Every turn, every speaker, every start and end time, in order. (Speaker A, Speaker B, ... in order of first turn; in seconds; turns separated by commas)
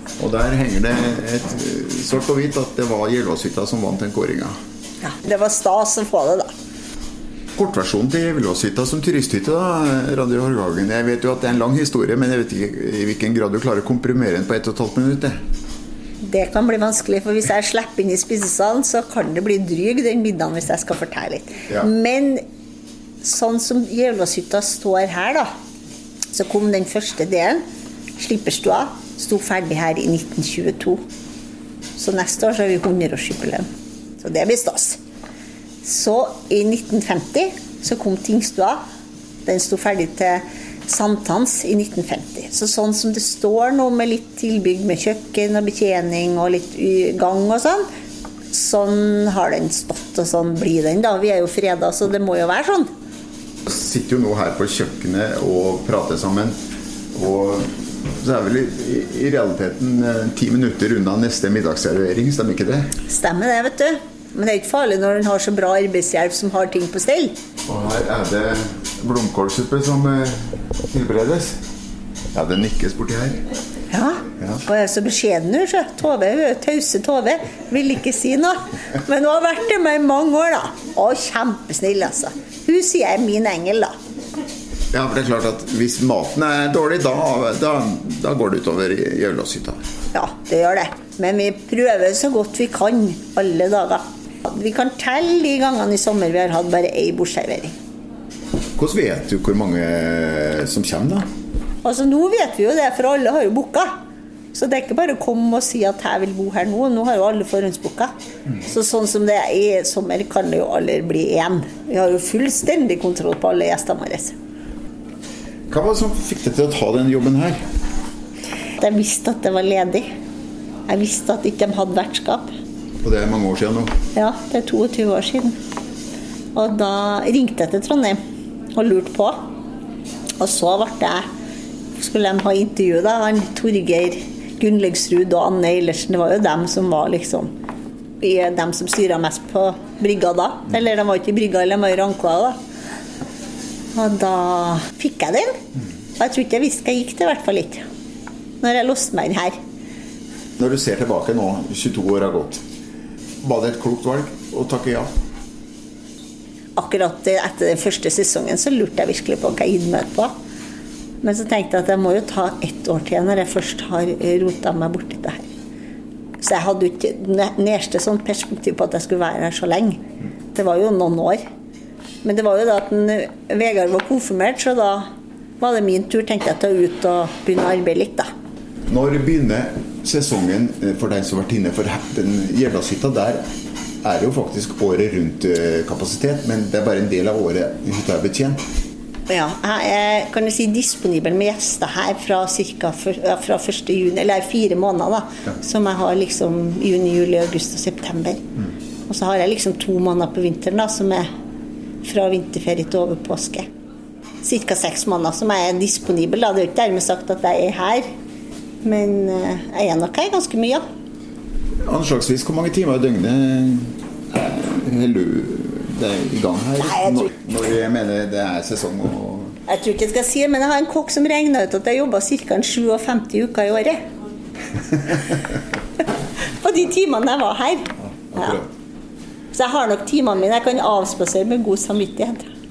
Speaker A: 0.2-4.5, Speaker B: 5.0-6.5, Speaker A: 7.6-15.4, Speaker B: 16.2-22.4, Speaker B: 23.2-25.5, Speaker B: 26.3-27.6, Speaker B: 28.2-31.0, Speaker B: 32.0-33.6, Speaker B: 34.2-35.0, Speaker B: 35.8-38.8, Speaker B: 39.5-47.9, Speaker B: 48.5-52.9, Speaker A: 53.7-56.6, Speaker A: 57.1-62.9, Speaker B: 63.1-67.3, Speaker A: 67.7-71.6, Speaker A: 72.3-73.4, Speaker B: 73.9-83.9, Speaker A: 84.9-89.8, Speaker B: 90.1-97.7, Speaker A: 98.8-101.2, Speaker B: 101.8-103.9, Speaker B: 104.5-108.1, Speaker B: 108.7-114.3, Speaker A: 115.7-117.6, Speaker B: 118.8-120.1, Speaker B: 120.9-122.5, Speaker A: 123.0-123.9, Speaker B: 124.2-125.6, Speaker B: 126.5-128.2, Speaker B: 128.8-129.4, Speaker B: 130.4-131.2, Speaker B: 132.0-137.5, Speaker B: 138.2-142.6, Speaker B: 143.9-145.5, Speaker B: 146.2-147.8, Speaker B: 148.6-149.6, Speaker A: 150.6-152.6, Speaker A: 153.4-155.1, Speaker B: 156.8-160.3, Speaker B: 161.2-165.5, Speaker B: 166.4-170.0, Speaker B: 170.5-171.4, Speaker B: 172.2-175.1, Speaker B: 175.6-178.3, Speaker A: 178.9-183.4, Speaker A: 184.0-188.6, Speaker B: 189.3-198.4, Speaker B: 199.1-201.3, Speaker B: 202.0-203.7, Speaker B: 204.4-208.1, Speaker B: 208.8-210.8, Speaker A: 211.9-219.6, Speaker B: 216.8-217.3, Speaker B: 219.7-224.0, Speaker B: 226.6-228.6, Speaker A: 228.3-228.6, Speaker B: 229.5-232.5